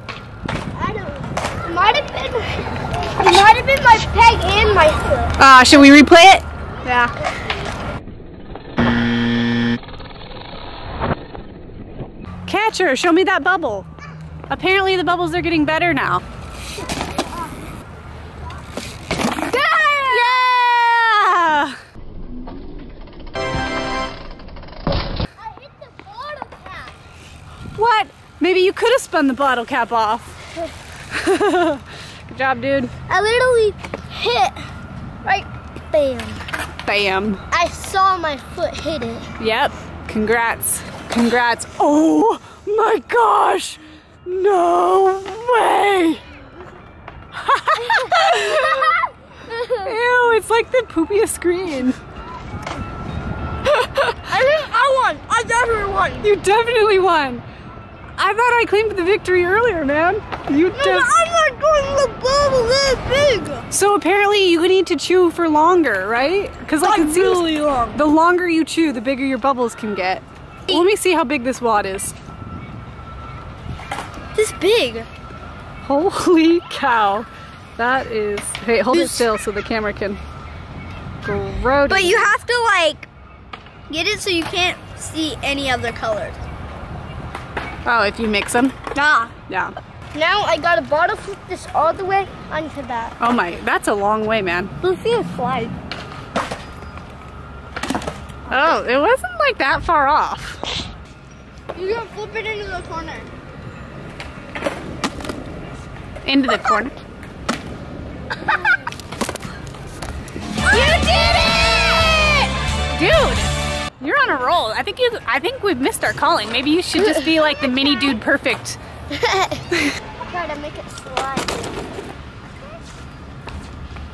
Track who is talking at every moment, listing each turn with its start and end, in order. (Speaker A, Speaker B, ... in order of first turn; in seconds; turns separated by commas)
Speaker A: 0.8-5.3, Speaker B: 5.4-7.2, Speaker B: 12.4-13.9, Speaker B: 14.5-16.2, Speaker B: 19.5-21.8, Speaker A: 20.1-20.5, Speaker A: 25.4-26.9, Speaker B: 27.7-30.4, Speaker B: 31.1-32.9, Speaker A: 33.1-34.6, Speaker A: 35.2-36.4, Speaker B: 36.9-37.4, Speaker A: 37.5-39.3, Speaker B: 39.4-46.2, Speaker B: 47.3-49.0, Speaker B: 49.7-52.0, Speaker B: 53.7-54.2, Speaker A: 54.2-56.3, Speaker B: 56.2-57.4, Speaker B: 58.2-61.1, Speaker A: 60.7-63.7, Speaker B: 63.7-72.2, Speaker A: 66.8-68.0, Speaker A: 74.3-75.1, Speaker B: 75.8-80.2, Speaker A: 78.9-79.3, Speaker B: 81.2-82.3, Speaker A: 81.9-83.1, Speaker A: 83.9-86.4, Speaker B: 87.8-88.8, Speaker A: 88.9-89.3, Speaker B: 89.5-89.7, Speaker A: 90.1-93.2, Speaker B: 93.2-94.7, Speaker A: 94.8-95.7, Speaker B: 98.5-100.6, Speaker A: 101.7-103.3, Speaker B: 106.2-107.0, Speaker B: 110.7-112.3, Speaker A: 110.7-112.2, Speaker B: 112.9-118.8, Speaker A: 119.1-119.6, Speaker A: 120.2-121.8